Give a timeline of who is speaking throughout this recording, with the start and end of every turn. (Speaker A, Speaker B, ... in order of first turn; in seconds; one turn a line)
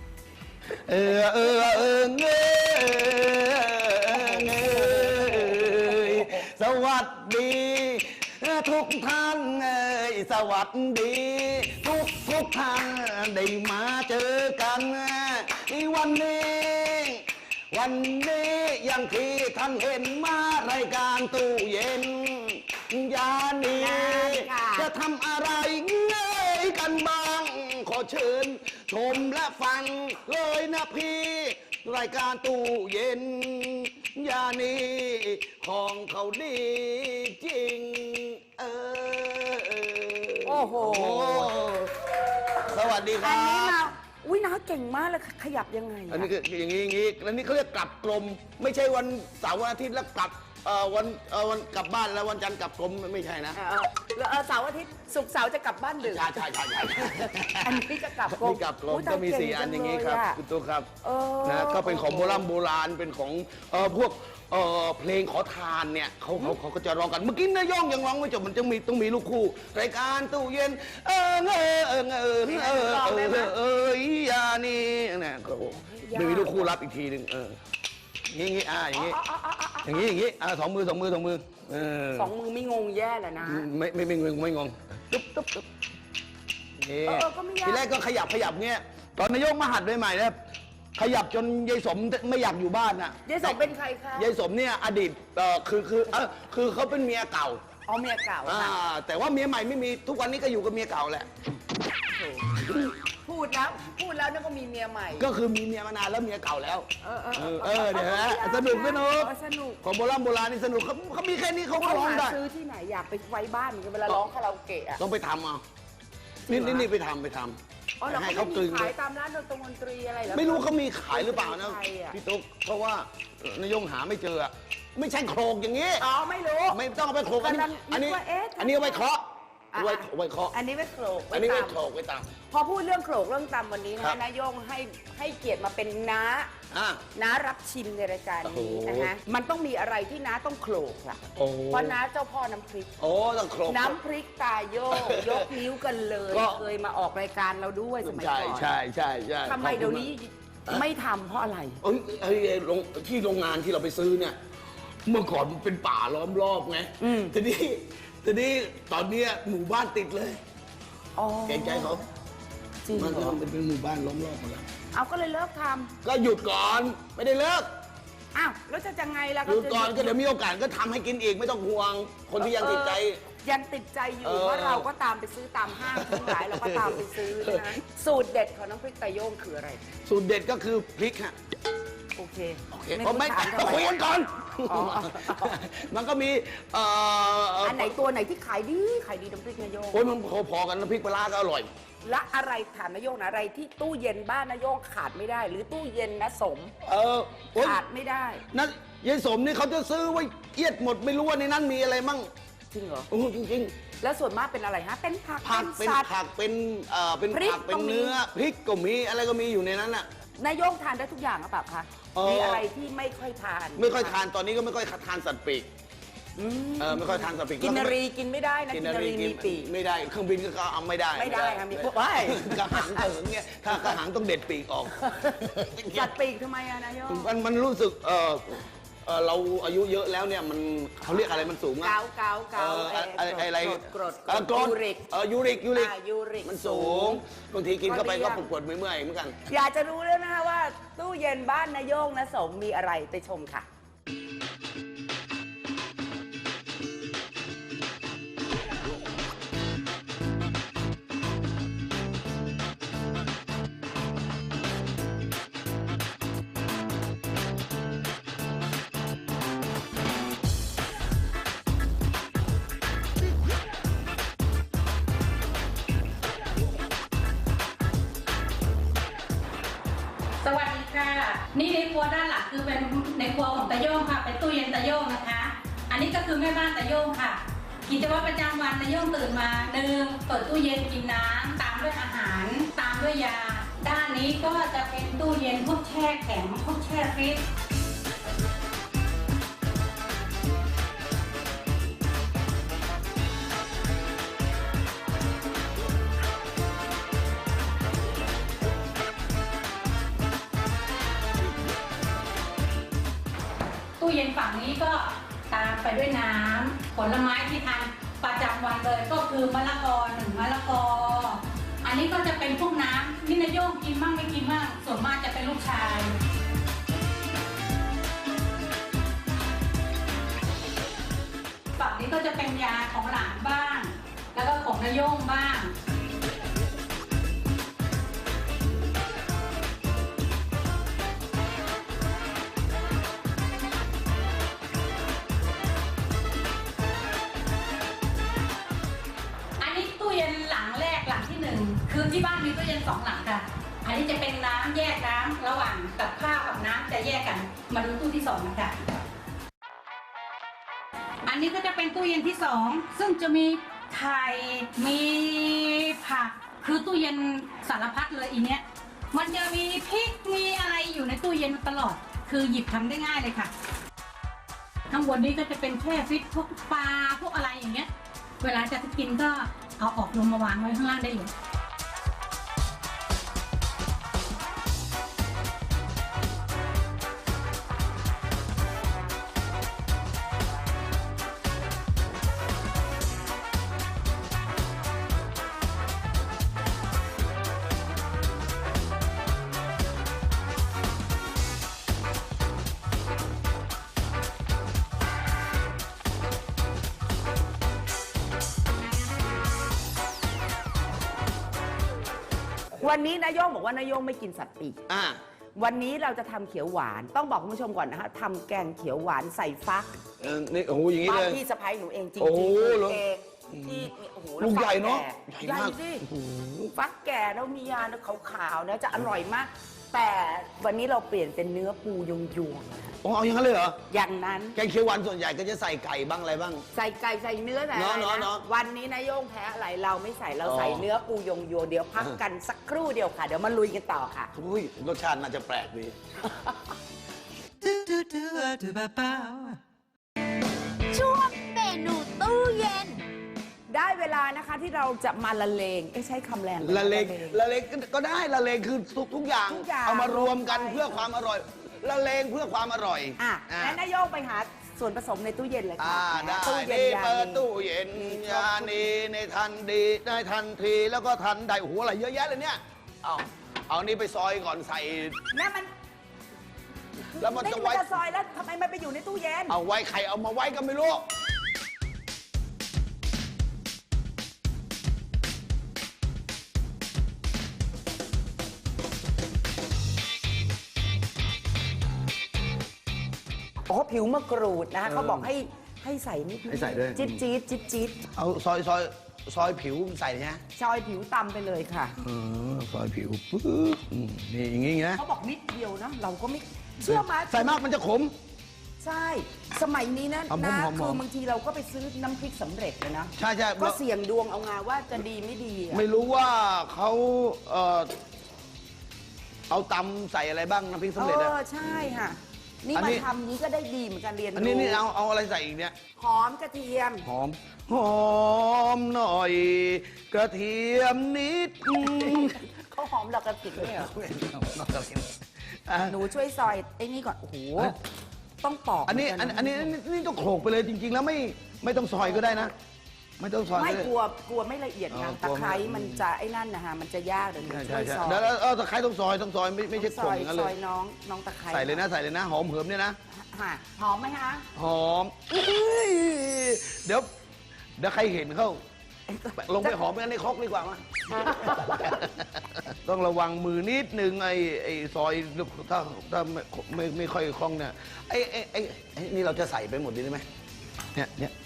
Speaker A: 0.7-43.8
Speaker B: 4.1-6.4
Speaker B: 23.7-24.9
Speaker B: 40.4-41.5
Speaker B: 43.2-46.3
Speaker A: 46.1-53.6
Speaker B: 53.5-56.4
Speaker A: 56.0-60.9
Speaker B: 57.1-60.4
Speaker B: 61.0-62.5
Speaker A: 61.4-77.6
Speaker B: 72.5-73.5
Speaker B: 75.8-76.7
Speaker A: 78.3-79.2
Speaker B: 78.9-80.1
Speaker A: 79.8-82.3
Speaker B: 82.1-83.7
Speaker A: 83.4-85.7
Speaker A: 86.8-90.4
Speaker B: 87.1-87.9
Speaker A: 91.0-97.6
Speaker B: 93.3-94.3
Speaker B: 97.9-98.8
Speaker A: 98.4-101.3
Speaker B: 102.1-102.7
Speaker A: 102.5-103.0
Speaker B: 103.2-105.3
Speaker A: 105.2-112.4
Speaker B: 107.0-109.8
Speaker B: 111.7-115.0
Speaker A: 115.0-115.6
Speaker A: 116.5-118.9
Speaker B: 116.5-116.9
Speaker B: 118.0-122.2
Speaker A: 120.3-126.0
Speaker B: 126.0-126.8
Speaker A: 126.7-130.6
Speaker B: 127.4-129.1
Speaker B: 129.7-131.8
Speaker A: 131.3-132.3
Speaker B: 132.5-136.5
Speaker A: 136.7-137.1
Speaker B: 137.2-143.0
Speaker A: 138.4-139.2
Speaker A: 141.3-142.0
Speaker A: 143.0-144.0
Speaker B: 143.7-148.8
Speaker A: 144.9-145.7
Speaker A: 146.3-146.7
Speaker A: 148.0-150.1
Speaker B: 149.5-151.8
Speaker A: 151.8-154.4
Speaker A: 155.1-160.4
Speaker B: 157.0-157.4
Speaker B: 161.2-162.0
Speaker A: 161.5-162.0
Speaker B: 162.8-163.4
Speaker A: 162.9-164.7
Speaker B: 164.9-165.9
Speaker A: 166.0-167.7
Speaker B: 168.3-170.2
Speaker A: 169.5-173.2
Speaker B: 172.4-179.8
Speaker A: 174.2-174.9
Speaker A: 175.9-177.8
Speaker A: 180.1-181.4
Speaker B: 182.2-184.0
Speaker A: 182.7-188.0
Speaker B: 184.7-185.6
Speaker B: 187.6-190.1
Speaker A: 189.9-191.7
Speaker B: 192.0-196.7
Speaker A: 196.8-197.8
Speaker B: 197.6-198.4
Speaker A: 198.5-202.3
Speaker B: 202.7-203.1
Speaker A: 203.1-203.8
Speaker B: 204.0-206.1
Speaker A: 205.4-210.1
Speaker B: 207.3-208.2
Speaker B: 210.4-214.2
Speaker A: 212.2-212.7
Speaker A: 213.8-215.7
Speaker B: 216.4-219.7
Speaker A: 216.8-218.0
Speaker A: 218.7-226.2
Speaker B: 221.2-223.1
Speaker B: 225.0-225.4
Speaker B: 225.9-227.3
Speaker A: 227.1-232.0
Speaker B: 231.1-235.1
Speaker A: 232.6-239.4
Speaker B: 235.7-237.2
Speaker B: 237.9-238.5
Speaker B: 239.5-243.7
Speaker C: 270.4-287.4
Speaker C: 304.0-316.1
Speaker C: 321.8-325.7
Speaker C: 339.6-348.8
Speaker C: 351.3-363.5
Speaker C: 364.9-367.9
Speaker C: 368.4-371.3
Speaker B: 402.8-404.8
Speaker A: 404.9-405.2
Speaker B: 405.6-410.0
Speaker A: 410.2-411.4
Speaker B: 411.1-416.0
Speaker A: 412.2-416.7
Speaker B: 416.8-422.9
Speaker A: 423.0-423.8
Speaker B: 423.9-424.6
Speaker A: 424.6-426.6
Speaker B: 426.7-434.3
Speaker A: 427.7-428.5
Speaker A: 430.4-430.9
Speaker A: 434.3-436.0
Speaker D: 437.6-439.6
Speaker E: 440.9-443.0
Speaker B: 443.7-447.4
Speaker A: 446.6-453.8
Speaker B: 449.5-451.1
Speaker B: 453.2-457.4
Speaker A: 455.8-465.2
Speaker B: 458.0-458.9
Speaker B: 465.3-465.7
Speaker A: 467.2-467.9
Speaker B: 467.2-469.6
Speaker A: 469.5-471.1
Speaker B: 483.7-488.1
Speaker A: 484.9-485.3
Speaker A: 486.5-487.2
Speaker A: 488.1-490.4
Speaker B: 490.6-492.0
Speaker A: 492.0-495.0
Speaker B: 495.0-497.6
Speaker A: 496.8-498.1
Speaker B: 498.8-505.8
Speaker A: 500.3-501.0
Speaker A: 503.2-503.8
Speaker A: 505.7-507.9
Speaker A: 509.5-511.3
Speaker B: 511.0-514.8
Speaker A: 512.8-513.1
Speaker A: 514.4-515.8
Speaker B: 516.0-517.1
Speaker A: 517.1-522.4
Speaker B: 521.8-523.9
Speaker A: 523.5-526.0
Speaker B: 525.9-527.8
Speaker B: 528.4-529.7
Speaker A: 528.9-532.5
Speaker B: 532.0-532.5
Speaker A: 533.2-533.9
Speaker B: 533.5-538.3
Speaker A: 534.9-536.0
Speaker A: 537.4-540.5
Speaker B: 539.8-541.8
Speaker A: 541.5-543.0
Speaker B: 543.1-544.5
Speaker A: 544.5-547.1
Speaker A: 547.8-548.6
Speaker B: 549.1-549.8
Speaker A: 549.4-560.2
Speaker B: 551.2-552.0
Speaker A: 560.9-561.3